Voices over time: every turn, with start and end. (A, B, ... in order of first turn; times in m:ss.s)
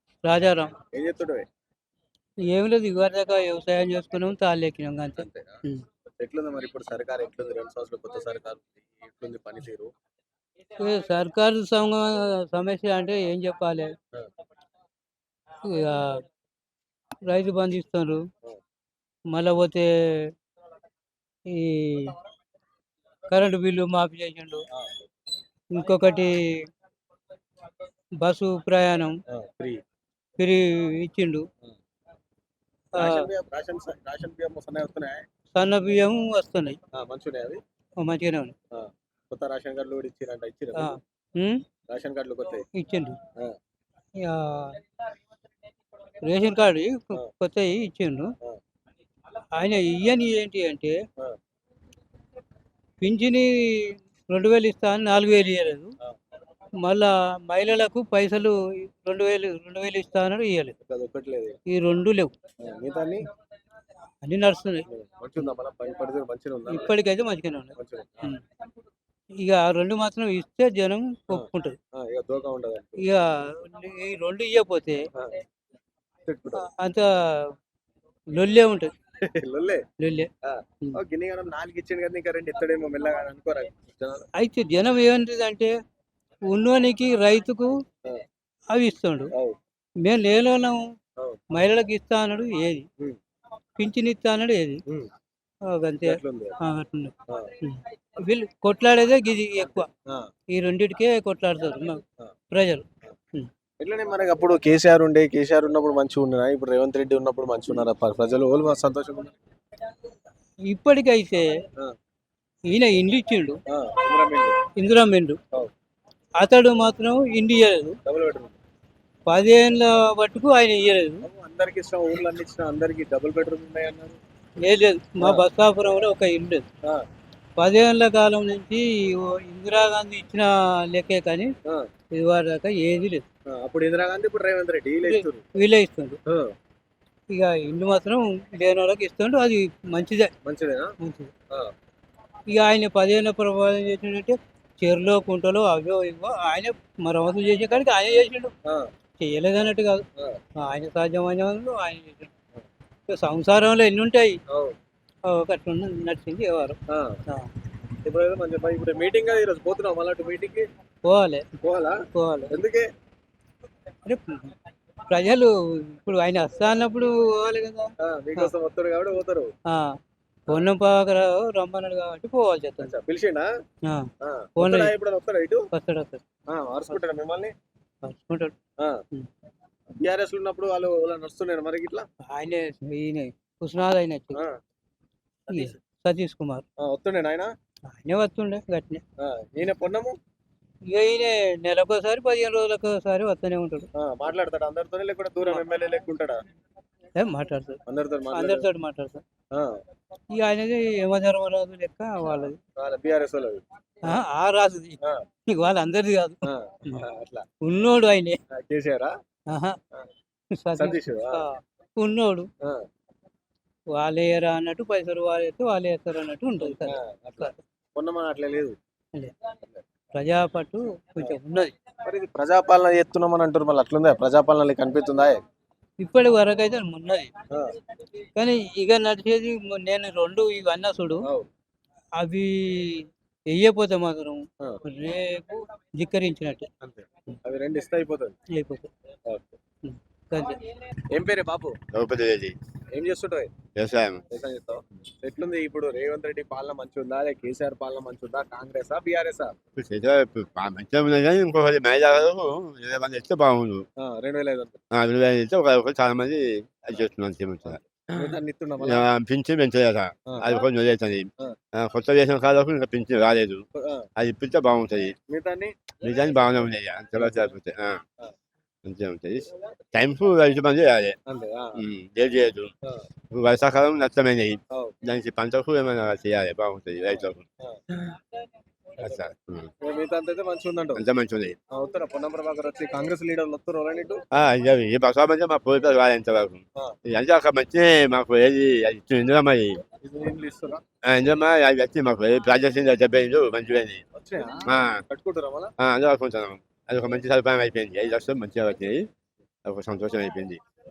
0:00.2-0:00.7 A
0:00.9-0:01.4 B
0:02.5-0:05.8 A
0:05.2-0:05.6 B
0:06.2-0:09.9 B
0:10.8-0:13.9 A
0:15.6-0:16.2 A
0:17.2-0:18.2 A
0:19.3-0:20.3 A
0:21.5-0:22.2 A
0:23.3-0:24.6 A
0:25.7-0:26.6 A
0:28.2-0:29.2 A
0:29.3-0:29.8 B
0:30.4-0:31.5 A
0:33.0-0:35.2 B
0:33.0-0:33.3 A
0:35.5-0:36.8 A
0:36.9-0:37.6 B
0:38.0-0:38.5 A
0:38.7-0:41.0 B
0:40.8-0:41.6 A
0:41.9-0:42.6 B
0:42.8-0:43.2 A
0:44.2-0:44.8 A
0:46.2-0:48.3 A
0:49.5-0:51.0 A
0:53.0-0:55.9 A
0:56.8-1:00.7 A
1:00.8-1:01.6 B
1:01.7-1:02.3 A
1:02.6-1:03.2 B
1:04.2-1:04.8 A
1:04.9-1:06.9 B
1:06.7-1:07.7 A
1:07.8-1:08.3 B
1:09.4-1:11.8 A
1:11.3-1:13.0 B
1:13.0-1:15.1 A
1:15.1-1:15.4 B
1:16.2-1:16.7 B
1:16.7-1:17.5 A
1:18.3-1:18.9 A
1:19.2-1:19.8 B
1:20.0-1:20.3 A
1:20.4-1:24.2 B
1:24.4-1:25.7 A
1:26.5-1:27.8 A
1:28.7-1:29.3 A
1:30.0-1:30.8 A
1:31.5-1:32.9 A
1:33.8-1:34.8 A
1:35.7-1:39.9 A
1:36.0-1:36.6 B
1:37.3-1:37.5 B
1:39.6-1:40.3 B
1:40.5-1:43.5 A
1:43.8-1:49.4 B
1:50.7-1:51.5 A
1:52.7-1:53.6 A
1:53.7-1:54.6 B
1:54.8-1:55.4 A
1:56.4-1:58.0 A
1:58.0-1:58.5 B
1:59.3-2:01.2 A
2:01.2-2:04.2 B
2:04.6-2:06.6 A
2:07.6-2:11.5 A
2:12.1-2:13.2 A
2:13.5-2:15.4 B
2:15.0-2:16.2 A
2:17.3-2:20.3 A
2:20.4-2:20.9 B
2:21.0-2:21.3 A
2:22.5-2:28.5 A
2:29.2-2:30.0 A
2:30.6-2:32.3 A
2:33.1-2:34.4 A
2:34.5-2:34.7 B
2:35.3-2:37.5 A
2:36.9-2:37.2 B
2:38.0-2:40.7 B
2:41.0-2:41.5 A
2:41.6-2:42.9 B
2:42.1-2:42.6 A
2:44.0-2:44.5 A
2:45.1-2:48.5 A
2:48.0-2:49.5 B
2:49.7-2:50.0 A
2:50.5-2:52.9 A
2:52.8-2:53.5 B
2:53.8-2:54.9 A
2:54.2-2:55.6 B
2:55.7-2:56.2 A
2:56.5-2:57.5 B
2:58.0-2:58.5 A
3:00.0-3:02.0 B
3:02.3-3:04.4 A
3:05.5-3:05.8 B
3:05.5-3:06.6 A
3:06.8-3:07.5 B
3:07.9-3:09.0 A
3:09.2-3:10.2 B
3:10.9-3:13.9 A
3:14.0-3:16.4 B
3:17.2-3:19.2 A
3:17.8-3:18.6 B
3:19.5-3:19.8 B
3:20.3-3:22.6 A
3:22.7-3:24.2 B
3:24.0-3:27.0 A
3:26.4-3:27.4 B
3:27.6-3:28.4 A
3:28.5-3:29.1 B
3:29.5-3:29.8 A
3:30.5-3:32.5 A
3:30.8-3:31.4 B
3:33.9-3:37.5 A
3:36.6-3:38.8 B
3:40.1-3:41.7 A
3:42.0-3:45.4 B
3:46.0-3:47.3 A
3:48.3-3:51.3 A
3:52.2-3:56.7 A
3:56.8-3:58.4 B
3:58.5-3:58.9 A
3:59.3-3:59.6 B
3:59.8-4:00.6 A
4:01.1-4:01.8 B
4:01.9-4:02.5 C
4:02.9-4:03.5 B
4:03.8-4:04.2 C
4:04.3-4:09.6 B
4:09.8-4:13.8 C
4:14.0-4:14.8 B
4:14.9-4:23.6 C
4:17.7-4:19.1 B
4:23.8-4:24.1 B
4:24.2-4:25.1 C
4:25.3-4:25.7 B
4:26.0-4:28.0 C
4:27.2-4:27.4 B
4:28.8-4:31.2 C
4:31.3-4:31.8 B
4:31.8-4:32.7 C
4:33.3-4:37.4 C
4:37.2-4:37.8 B
4:39.0-4:39.7 C
4:39.8-4:41.0 B
4:41.0-4:41.6 C
4:41.7-4:44.2 B
4:44.3-4:49.8 C
4:50.0-4:50.8 B
4:51.0-4:54.0 C
4:54.1-4:55.7 B
4:54.6-4:55.0 C
4:55.8-4:59.1 C
4:59.6-5:00.6 C